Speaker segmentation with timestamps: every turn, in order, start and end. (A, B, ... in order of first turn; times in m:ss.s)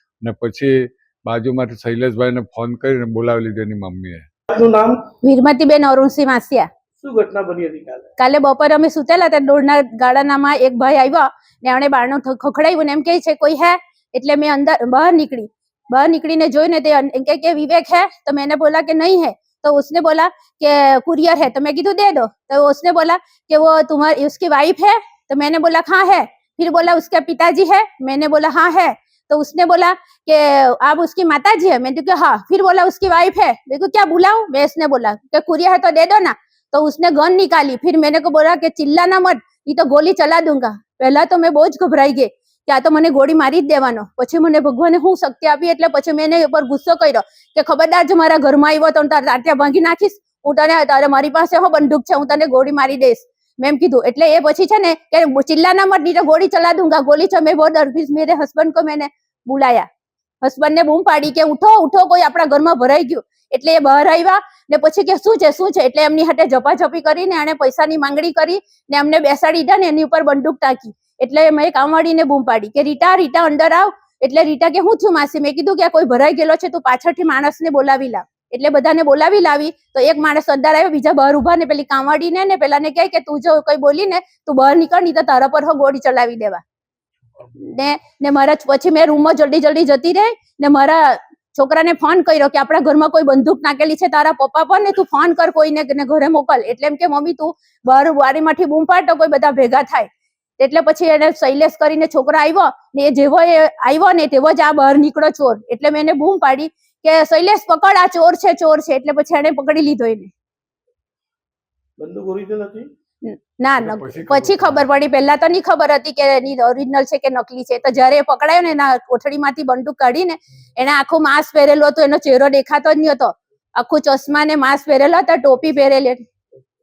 0:00.2-0:04.2 A
0:04.5-0:05.1 B
0:05.2-0:06.7 C
0:07.0-0:08.1 B
0:08.2-0:59.9 C
1:00.4-1:26.6 C
1:27.6-1:50.3 C
1:52.0-1:52.9 B
1:53.2-2:06.2 C
1:53.8-1:54.8 A